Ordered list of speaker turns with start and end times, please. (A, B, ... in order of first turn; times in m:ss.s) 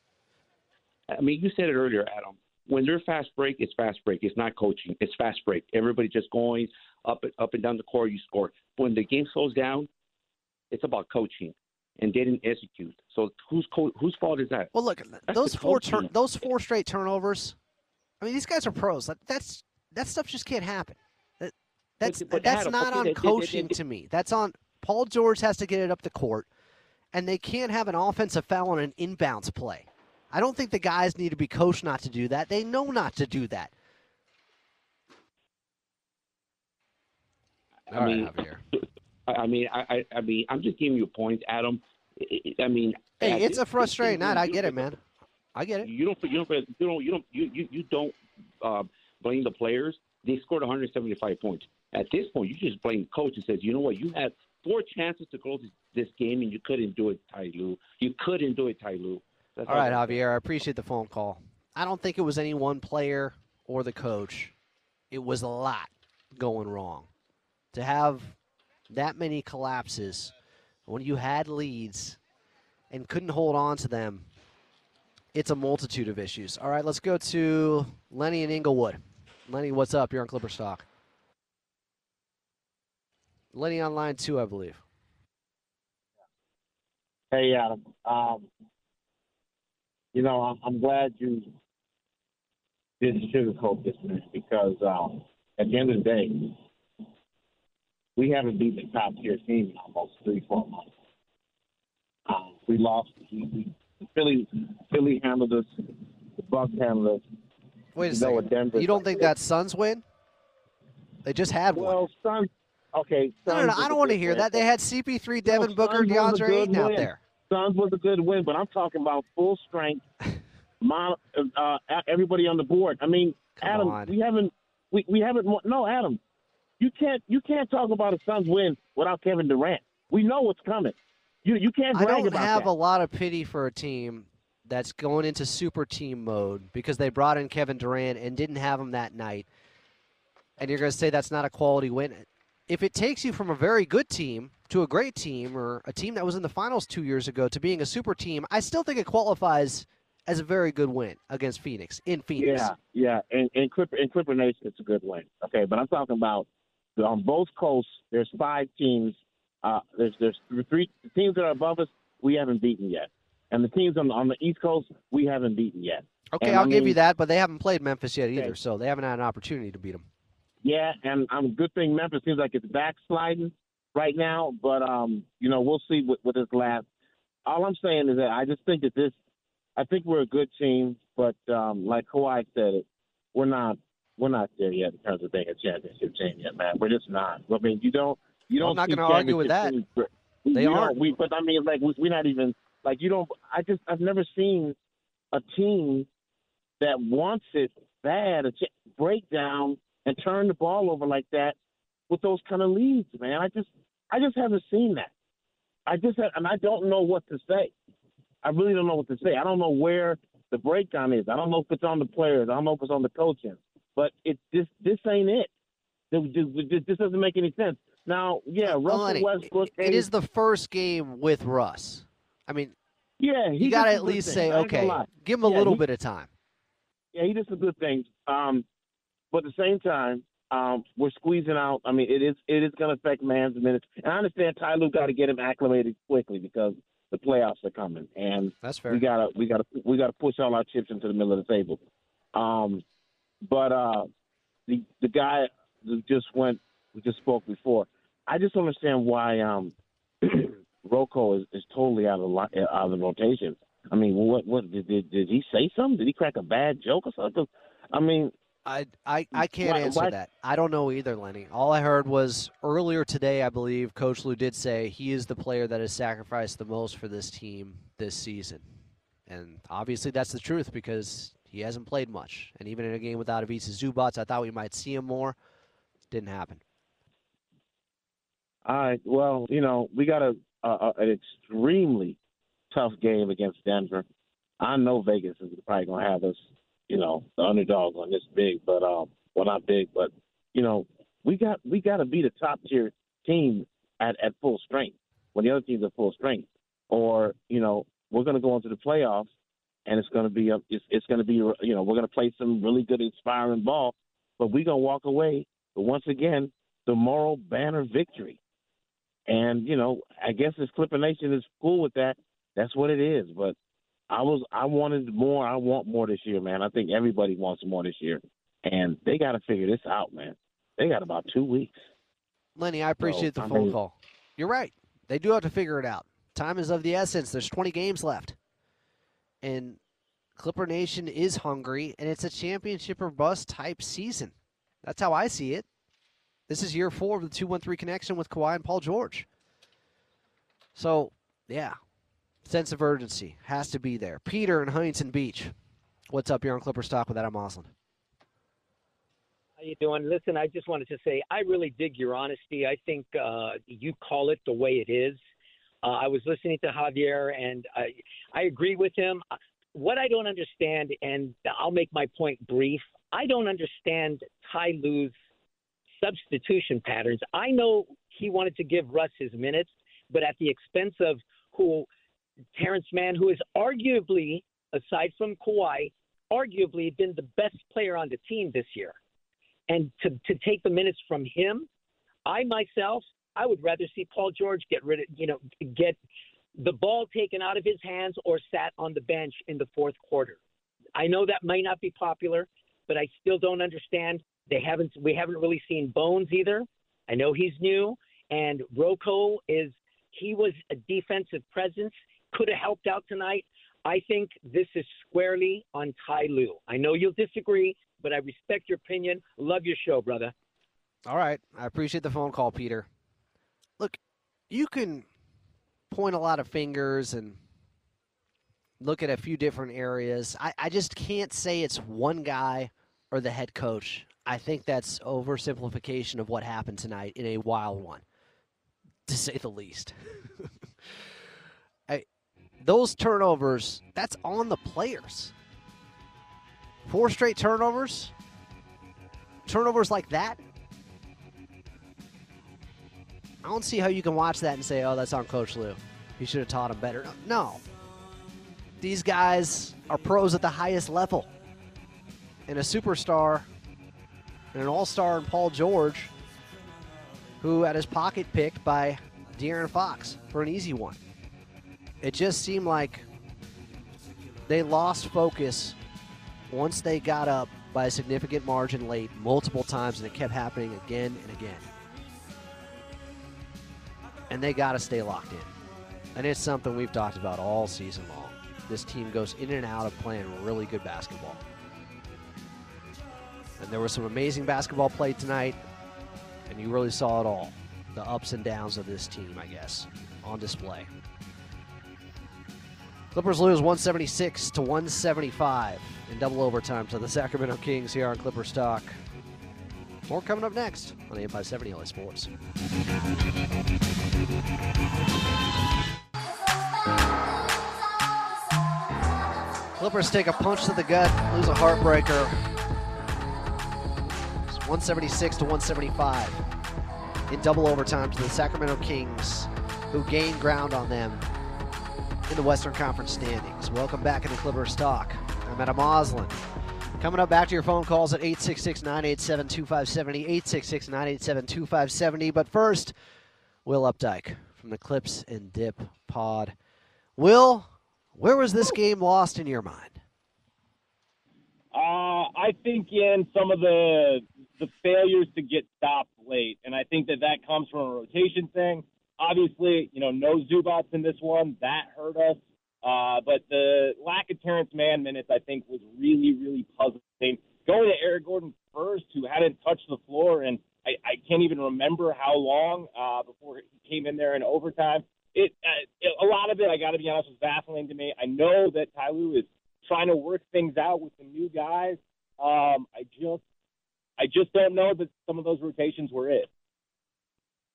0:01.1-0:09.9 A
0:10.7-0:14.7 A
0:14.7-0:17.6 B
0:15.3-0:16.1 A
0:18.2-0:26.5 B
0:22.0-0:23.8 A
0:27.1-0:33.7 B
0:37.9-0:38.7 A
0:37.9-0:38.6 B
0:39.3-0:44.9 A
0:43.2-0:45.0 B
0:45.6-0:45.9 B
0:45.8-1:00.2 A
0:59.7-1:04.5 B
1:05.1-1:07.1 B
1:07.7-1:08.4 B
1:08.9-1:10.3 B
1:10.9-1:12.2 B
1:12.9-1:14.3 B
1:15.3-1:20.8 B
1:23.5-1:24.8 B
1:27.3-1:28.5 C
1:30.1-1:31.5 C
1:33.0-1:36.6 C
1:38.2-1:40.9 C
1:42.3-1:47.2 C
1:48.0-1:50.0 B
1:48.0-1:49.3 C
1:51.2-1:52.0 B
1:51.8-1:54.6 C
1:53.5-1:57.2 B
1:55.4-2:00.1 C
2:00.8-2:06.2 C
2:03.6-2:04.1 B
2:06.8-2:12.7 C
2:11.9-2:19.5 B
2:20.6-2:32.7 B
2:32.4-2:47.0 C
2:46.3-2:50.1 B
2:50.6-2:56.8 C
2:57.5-2:59.2 C
2:59.8-3:14.8 C
3:08.6-3:09.7 B
3:10.5-3:10.9 B
3:15.3-3:16.1 C
3:16.8-3:21.6 C
3:22.1-3:25.1 C
3:25.9-3:27.7 C
3:28.4-3:35.5 C
3:36.1-3:40.1 C
3:38.6-3:42.8 B
3:43.2-3:45.8 C
3:43.6-3:46.3 B
3:47.1-3:48.6 C
3:49.3-4:01.8 C
3:58.6-3:59.0 B
4:02.3-4:02.8 C
4:03.4-4:04.1 C
4:04.7-4:18.3 C
4:18.6-4:28.6 B
4:19.4-4:20.2 C
4:29.3-4:35.4 B
4:36.1-4:36.6 B
4:38.6-4:42.2 C
4:42.7-4:44.0 C
4:44.6-4:59.3 C
4:59.8-5:08.4 C
5:09.3-5:13.6 C
5:14.1-5:21.8 C
5:22.6-5:28.4 B
5:23.0-5:23.8 C
5:29.4-5:29.8 B
5:30.4-5:35.6 B
5:36.5-5:39.2 B
5:40.8-5:41.8 B
5:42.4-5:45.5 B
5:46.1-5:47.7 B
5:49.6-5:55.2 D
5:55.8-6:05.1 D
6:06.0-6:11.9 D
6:12.6-6:19.0 D
6:19.7-6:21.7 D
6:22.2-6:26.0 D
6:26.6-6:30.4 D
6:31.0-6:50.3 D
6:51.1-6:52.9 B
6:54.5-6:55.1 B
6:55.9-6:57.4 B
6:58.8-7:08.0 B
7:09.1-7:10.5 B
7:12.6-7:15.3 B
7:16.8-7:18.1 B
7:19.5-7:20.4 B
7:23.4-7:27.6 B
7:28.8-7:31.3 B
7:32.5-7:33.5 B
7:34.5-7:36.1 B
7:37.4-7:41.0 B
7:42.0-7:43.0 B
7:44.4-7:45.8 B
7:46.5-7:51.7 B
7:54.3-7:55.5 B
7:56.2-8:01.4 B
8:03.6-8:05.6 B
8:06.5-8:10.9 B
8:13.1-8:19.0 B
8:20.1-8:22.3 B
8:29.8-8:32.4 B
8:34.5-8:36.4 B
8:37.3-8:41.3 B
8:42.3-8:46.4 B
8:47.0-8:52.9 B
8:53.6-8:56.5 B
8:57.2-9:00.0 B
9:01.7-9:33.4 E
9:34.2-9:36.5 E